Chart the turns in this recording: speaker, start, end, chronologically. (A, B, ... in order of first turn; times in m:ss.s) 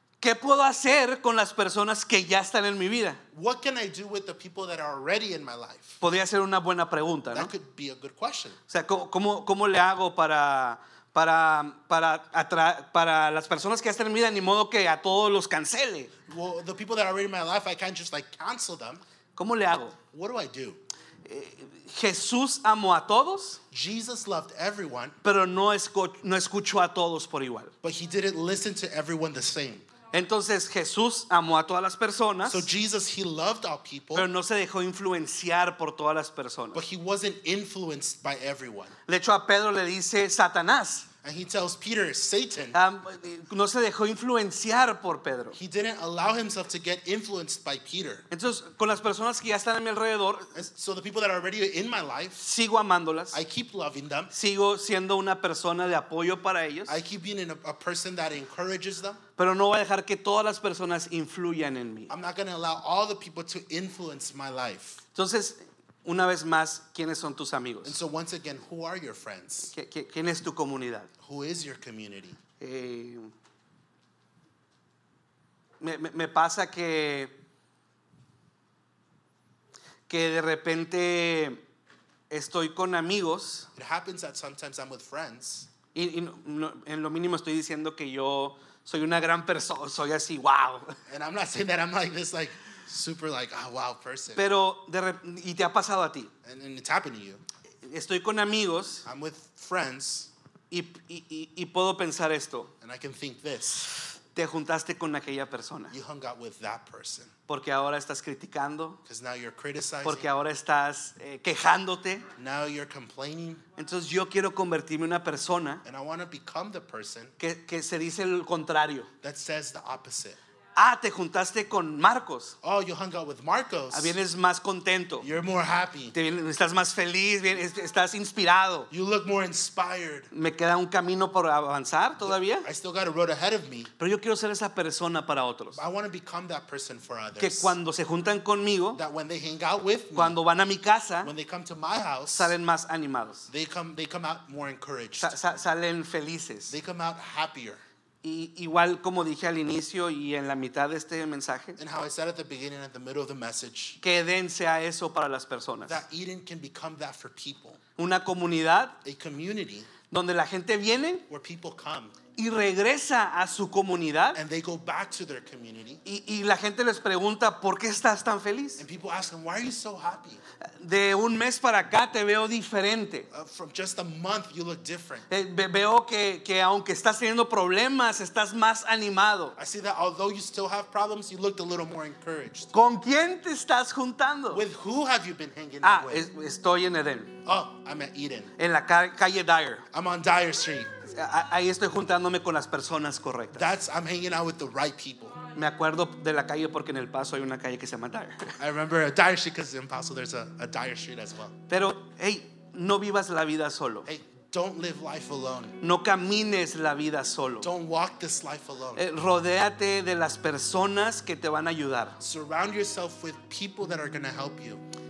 0:00.2-0:03.2 A
0:03.3-0:06.0 B
0:06.0-0:07.5 A
0:07.3-0:08.6 B
0:08.7-0:16.1 A
0:16.3-0:19.0 B
0:19.4-0:20.0 A
0:20.1-0:20.8 B
0:21.2-0:23.6 A
0:23.7-0:25.2 B
0:25.2-0:27.7 A
0:27.8-0:29.9 B
0:30.1-0:32.7 A
0:32.4-0:34.3 B
0:34.1-0:36.8 A
0:36.7-0:38.9 B
0:39.1-0:41.1 A
0:41.2-0:42.8 B
0:42.7-0:45.6 A
0:45.5-0:48.2 B
0:48.3-0:50.5 A
0:50.5-0:52.4 B
0:52.4-0:53.4 A
0:53.3-0:54.3 B
0:54.3-0:57.0 A
0:56.9-0:59.2 B
0:59.4-1:02.1 A
1:02.1-1:05.0 B
1:05.1-1:08.0 A
1:07.8-1:09.7 B
1:09.7-1:11.1 A
1:11.2-1:12.4 B
1:12.6-1:13.3 A
1:15.8-1:17.3 A
1:20.1-1:21.6 A
1:22.3-1:23.7 A
1:23.7-1:25.7 B
1:25.9-1:31.0 A
1:31.1-1:34.4 B
1:34.4-1:36.3 A
1:36.4-1:37.4 B
1:37.8-1:39.0 A
1:39.0-1:40.3 B
1:40.7-1:42.7 A
1:42.8-1:43.9 B
1:44.3-1:45.9 A
1:45.9-1:47.3 B
1:47.5-1:49.0 A
1:49.0-1:50.3 B
1:50.0-1:52.3 A
1:52.4-1:53.6 B
1:53.8-1:55.8 A
1:55.8-1:57.3 B
1:57.4-1:59.1 A
1:59.2-2:00.4 B
2:00.8-2:02.6 A
2:02.6-2:04.2 B
2:03.9-2:05.2 A
2:05.2-2:06.1 B
2:06.1-2:08.9 A
2:08.9-2:10.3 B
2:10.3-2:12.7 A
2:12.3-2:13.9 B
2:14.0-2:15.8 A
2:15.7-2:17.8 B
2:17.4-2:19.0 A
2:18.9-2:20.4 B
2:20.1-2:21.3 A
2:21.2-2:22.5 B
2:22.3-2:23.5 A
2:23.5-2:25.4 B
2:25.2-2:26.7 A
2:26.7-2:27.8 B
2:28.2-2:31.8 A
2:31.8-2:34.0 B
2:34.0-2:36.0 A
2:35.8-2:37.8 B
2:38.0-2:39.0 A
2:39.0-2:39.9 B
2:40.1-2:41.2 A
2:41.3-2:42.2 B
2:42.4-2:44.4 A
2:44.3-2:46.0 B
2:46.0-2:48.8 A
2:48.8-2:50.4 B
2:50.6-2:53.3 A
2:53.3-2:55.3 B
2:55.3-2:59.6 A
2:59.6-3:02.7 B
3:02.7-3:04.6 A
3:04.5-3:06.2 B
3:05.8-3:07.3 A
3:07.4-3:08.5 B
3:08.6-3:09.9 A
3:09.9-3:10.9 B
3:11.1-3:13.7 A
3:13.5-3:15.4 B
3:15.5-3:18.5 A
3:18.6-3:21.6 B
3:21.7-3:24.1 A
3:24.0-3:25.8 B
3:25.8-3:27.7 A
3:27.6-3:29.0 B
3:29.0-3:32.2 A
3:32.2-3:34.8 B